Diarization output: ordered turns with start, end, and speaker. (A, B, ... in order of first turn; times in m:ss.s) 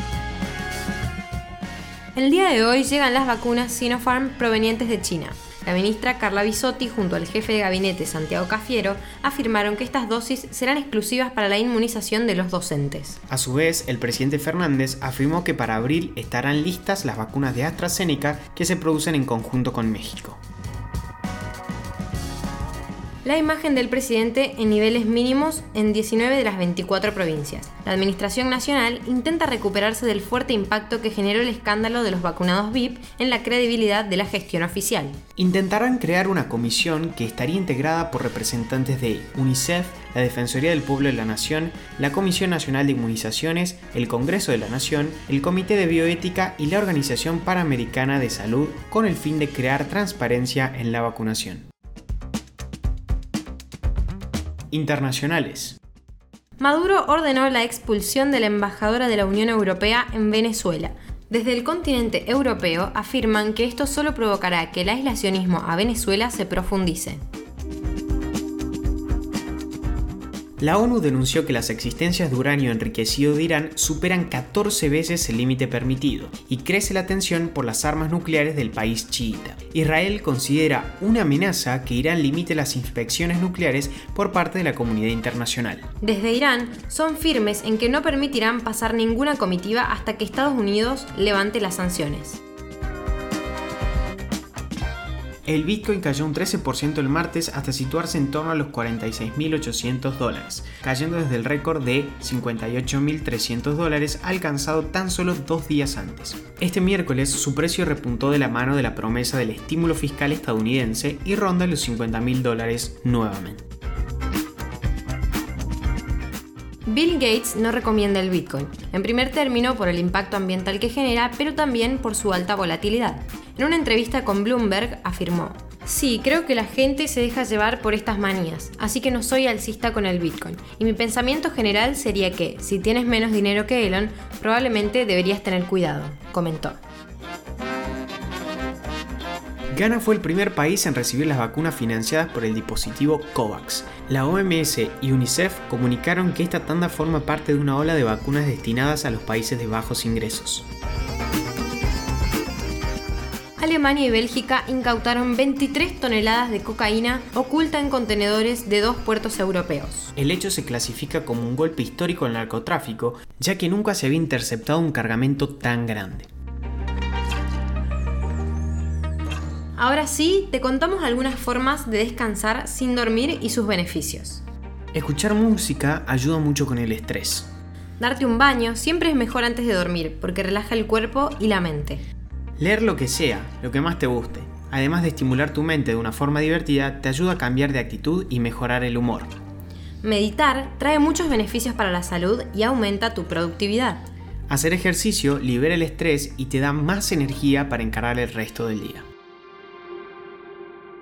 0:02.2-0:13.2 A
0:13.3-0:20.4 B
0:23.2-0:35.2 A
0:35.4-0:51.6 B
0:54.7-0:55.8 B
0:56.6-1:07.2 A
1:10.6-1:25.9 B
1:26.0-1:32.4 A
1:35.5-1:53.6 B
1:56.9-2:16.8 A
2:19.7-2:30.7 B
2:33.6-2:40.1 A
2:40.2-2:46.3 B
2:49.8-2:54.4 A
2:54.9-2:57.5 B
2:58.0-3:02.0 A
3:02.6-3:09.4 B
3:10.0-3:14.1 A
3:14.5-3:19.1 B